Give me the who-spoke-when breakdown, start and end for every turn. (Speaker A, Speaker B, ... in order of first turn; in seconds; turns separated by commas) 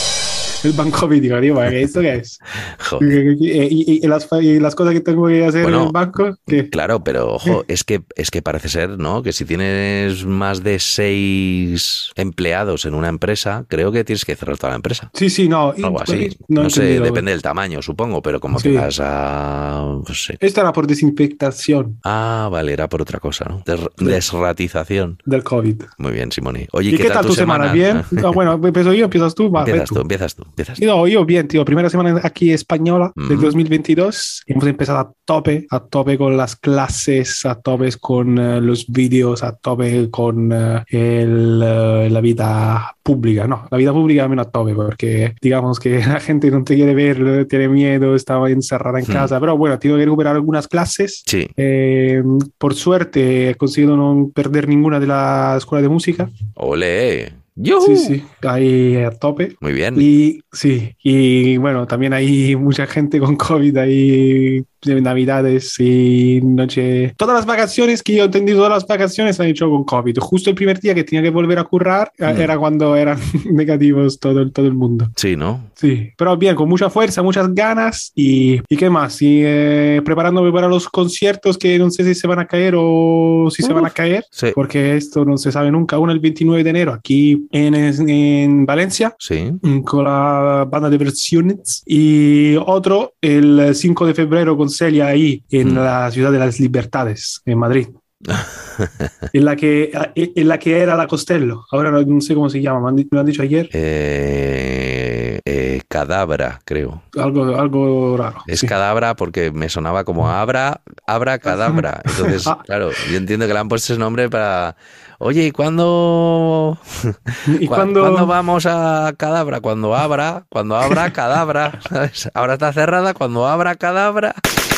Speaker A: 0.6-2.4, Speaker B: 2.8-3.2, Speaker A: 3.0-6.7, Speaker B: 5.6-6.0, Speaker B: 6.5-15.1, Speaker A: 15.1-17.2, Speaker B: 15.8-20.4, Speaker A: 18.5-18.9, Speaker A: 20.4-22.0, Speaker B: 22.0-25.2, Speaker A: 25.2-25.9, Speaker B: 26.0-28.4, Speaker A: 26.9-30.0, Speaker B: 29.6-30.8, Speaker A: 30.8-56.3, Speaker B: 33.2-33.6, Speaker B: 49.0-49.3, Speaker B: 51.3-51.5, Speaker B: 56.6-58.1, Speaker A: 57.8-75.1, Speaker B: 59.6-60.1, Speaker B: 72.2-72.5, Speaker B: 75.2-75.7, Speaker A: 75.8-97.9, Speaker B: 89.2-89.6, Speaker B: 95.6-95.9, Speaker B: 98.3-99.1, Speaker A: 99.3-103.7, Speaker B: 103.7-107.0, Speaker A: 107.1-108.7, Speaker B: 108.5-124.4, Speaker A: 111.5-112.6, Speaker A: 117.5-118.3